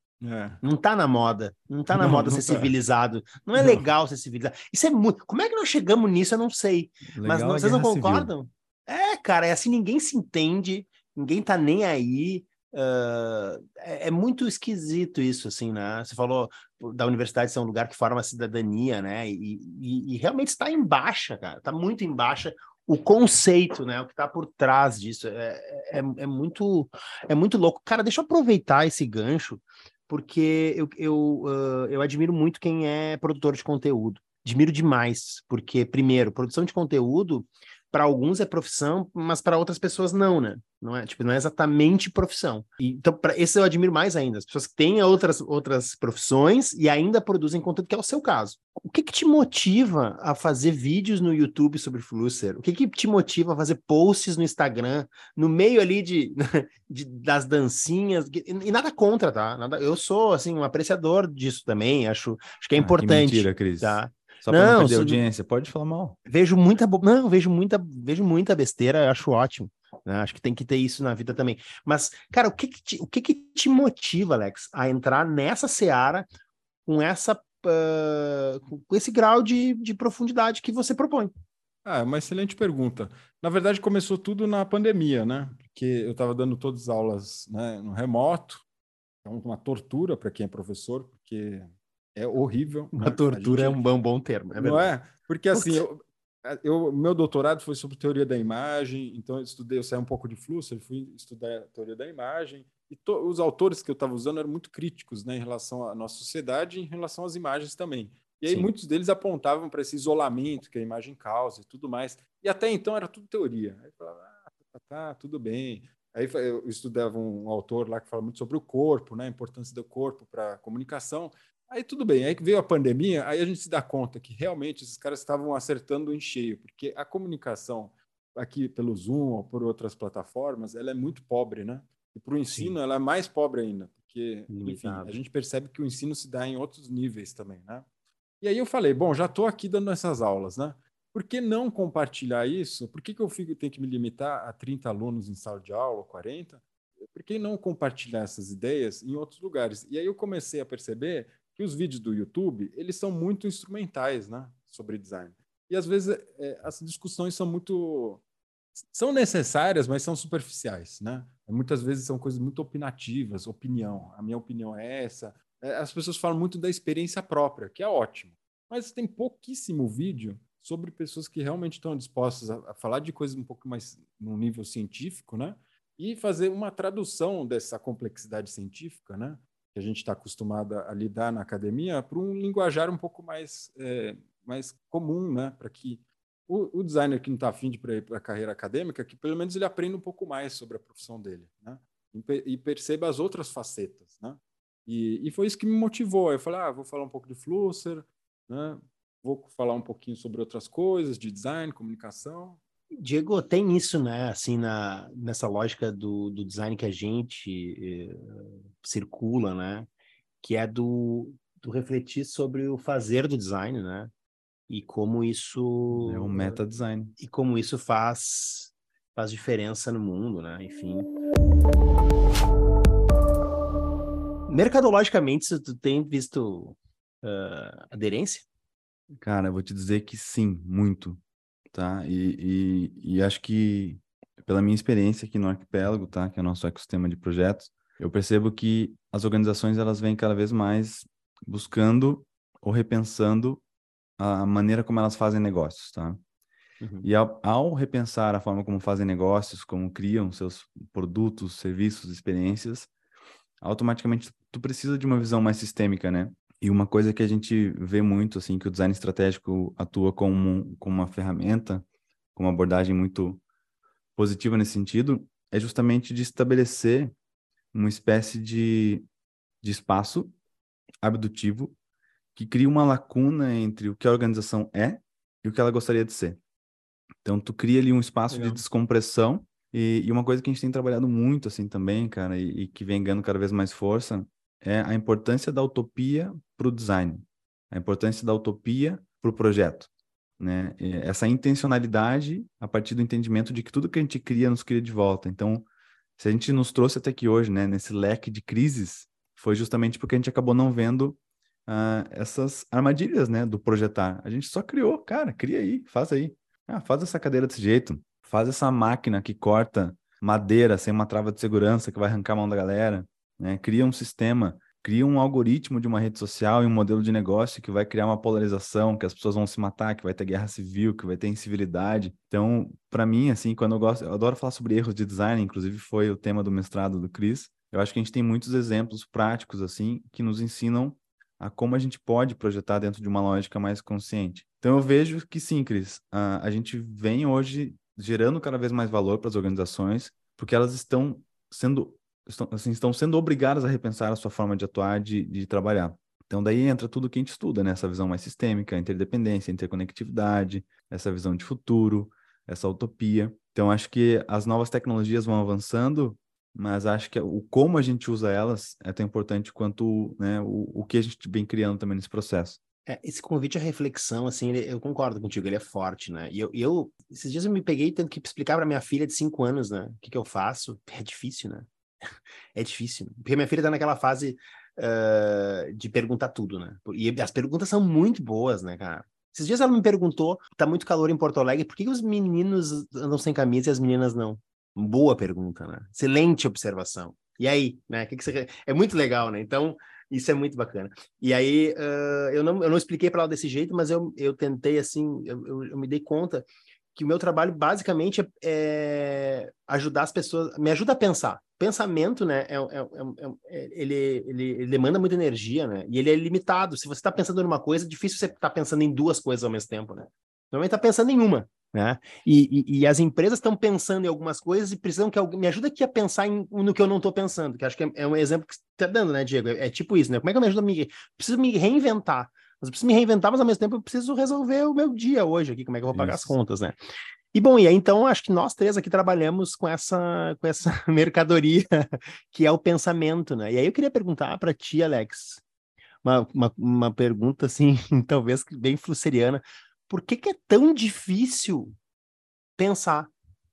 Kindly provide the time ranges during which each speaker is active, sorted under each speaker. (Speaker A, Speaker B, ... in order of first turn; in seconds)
Speaker A: 0.2-0.6, 1.9-2.7, 81.8-88.6, 89.2-93.8, 94.5-137.8, 138.4-158.2, 158.9-202.6, 425.9-426.3
Speaker B: 0.6-65.2, 66.2-76.2, 76.8-81.3, 92.9-94.9, 95.5-95.8, 132.5-132.7, 134.5-135.2, 203.0-209.9, 210.4-214.1, 214.7-216.6, 217.2-221.1, 224.5-228.4, 246.8-247.1, 278.3-278.6, 362.9-371.7, 372.5-426.8, 427.3-435.4, 436.0-441.7, 442.6-443.1
Speaker C: 7.1-8.3, 62.7-66.2, 215.9-217.1, 229.2-231.2, 231.7-243.6, 244.2-246.2, 247.0-252.9, 253.6-263.4, 264.1-267.1, 267.7-269.0, 269.6-270.3, 271.0-271.8, 272.3-276.4, 277.2-295.7, 296.2-362.6